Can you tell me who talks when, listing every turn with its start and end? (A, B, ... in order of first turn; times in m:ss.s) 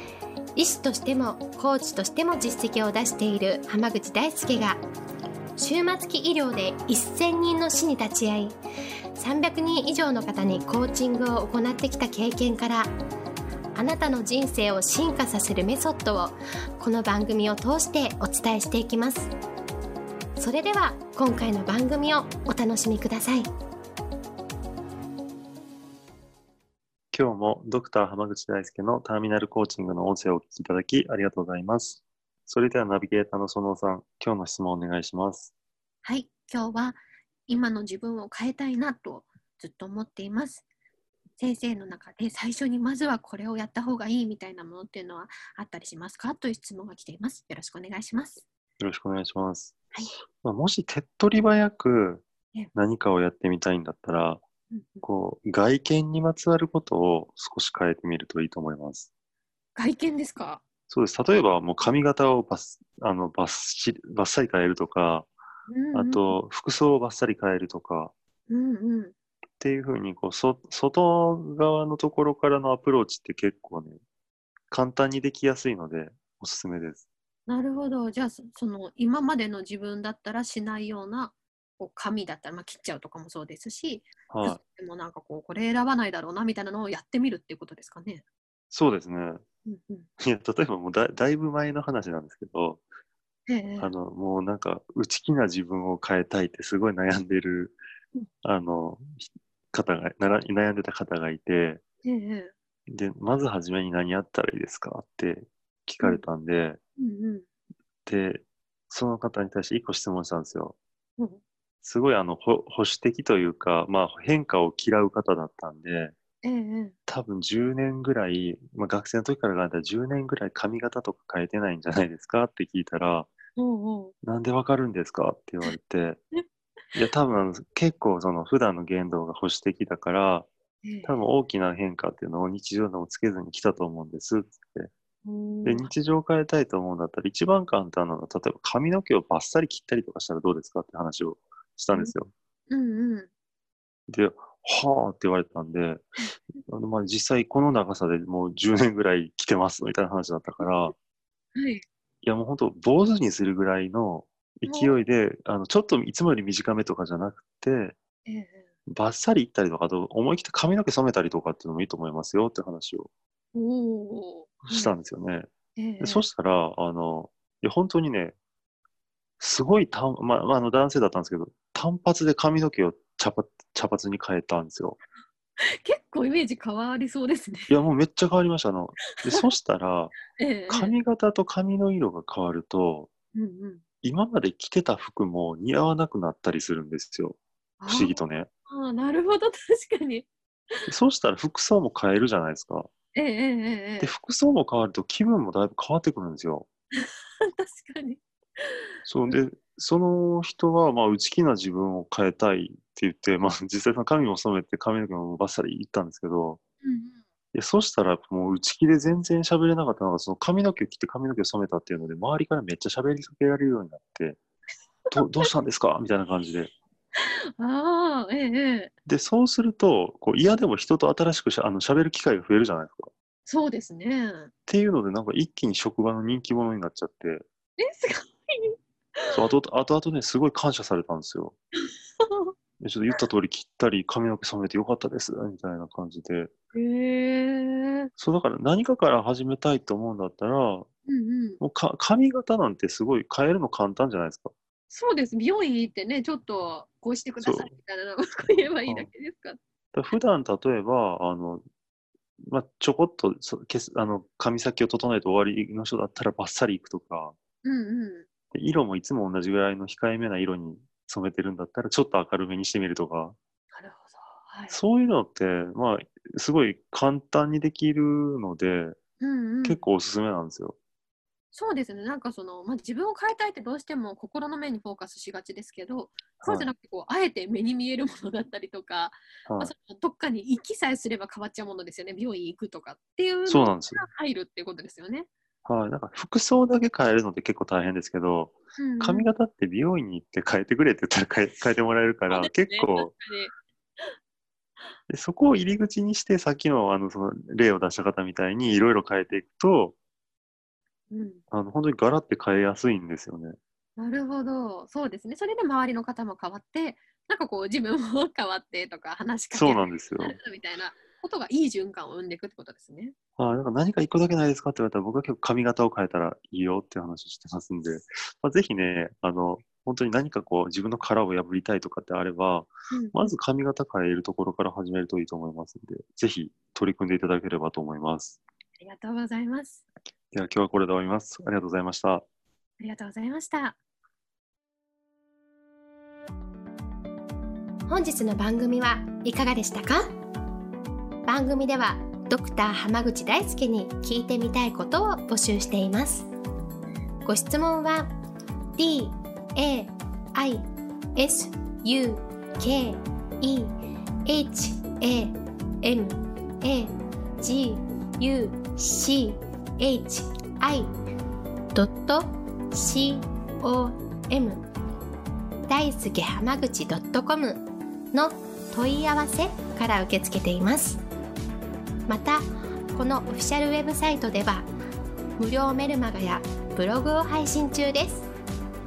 0:00.6-0:04.8 A
0:05.6-0:08.6 A
0:09.2-0:12.9 A
0:13.8-0:19.3 A
0:20.4-0:23.5 A
0:27.1-0:35.5 B
0:36.0-0:40.7 C
0:41.4-0:48.4 C
0:48.8-0:49.8 B
0:50.4-0:54.4 B
0:54.7-0:55.0 C
0:55.0-0:59.1 B
0:59.8-1:00.6 C
1:00.9-1:05.3 B
1:05.7-1:06.4 C
1:05.9-1:08.1 B
1:08.5-1:09.2 C
1:09.6-1:14.0 B
1:14.7-1:17.0 B
1:17.5-1:28.2 C
1:24.3-1:24.6 B
1:28.7-1:29.4 B
1:29.7-1:30.1 C
1:30.2-1:32.8 B
1:33.5-1:34.0 C
1:33.8-1:37.8 B
1:38.4-1:41.8 B
1:42.0-1:42.5 C
1:42.9-1:46.8 B
1:47.0-1:47.4 C
1:48.1-1:50.8 B
1:51.8-1:56.2 B
1:56.4-1:57.0 C
1:57.1-2:03.3 B
2:03.6-2:04.1 C
2:04.2-2:06.2 B
2:07.0-2:10.5 B
2:10.8-2:11.2 C
2:11.0-2:14.9 B
2:15.2-2:15.9 C
2:15.6-2:22.3 B
2:22.7-2:23.3 C
2:24.1-2:26.1 B
2:26.7-2:30.9 B
2:31.6-2:31.8 C
2:32.2-2:38.0 B
2:34.7-2:35.0 C
2:38.3-2:38.7 C
2:38.9-2:43.1 B
2:43.5-2:45.0 C
2:44.6-2:48.4 B
2:45.8-2:46.2 C
2:49.4-2:55.0 B
2:55.6-2:57.7 C
2:57.7-3:03.1 B
2:59.2-2:59.5 C
3:00.4-3:01.0 C
3:03.4-3:03.8 C
3:04.0-3:08.5 B
3:07.8-3:10.9 C
3:10.9-3:12.9 B
3:13.2-3:14.1 C
3:14.0-3:16.7 B
3:17.0-3:19.4 C
3:19.1-3:26.6 B
3:26.8-3:27.2 C
3:27.5-3:34.4 B
3:35.1-3:35.5 C
3:35.1-3:36.7 B
3:37.2-3:38.9 C
3:39.1-3:43.1 B
3:43.5-3:44.5 C
3:44.7-3:47.4 B
3:47.8-3:49.5 C
3:49.3-3:51.6 B
3:52.2-3:52.5 C
3:52.8-3:56.5 B
3:56.7-3:58.1 C
3:58.2-4:00.9 B
4:01.1-4:01.6 C
4:01.6-4:04.5 B
4:04.9-4:09.6 C
4:07.4-4:07.7 B
4:08.8-4:09.1 B
4:09.9-4:11.6 B
4:12.4-4:17.4 B
4:17.6-4:18.3 C
4:18.5-4:23.4 B
4:23.7-4:24.8 C
4:24.7-4:29.0 B
4:29.2-4:29.8 C
4:29.6-4:30.8 B
4:31.5-4:45.3 C
4:36.4-4:36.7 B
4:39.5-4:39.7 B
4:43.5-4:44.0 B
4:45.6-4:53.1 B
4:48.8-4:49.3 C
4:52.3-4:54.1 C
4:55.1-5:00.0 B
5:01.1-5:01.4 C
5:01.5-5:03.6 B
5:04.0-5:13.2 C
5:09.5-5:10.4 B
5:13.4-5:28.4 B
5:22.9-5:23.2 C
5:28.8-5:29.8 C
5:30.3-5:32.2 B
5:32.8-5:33.8 C
5:37.9-5:40.1 A
5:41.2-5:46.3 A
5:47.2-5:48.1 A
5:48.8-5:50.6 A
5:51.2-5:53.7 A
5:54.3-6:00.9 A
6:01.7-6:04.6 A
6:05.7-6:11.0 A
6:12.1-6:14.7 A
6:15.4-6:18.3 A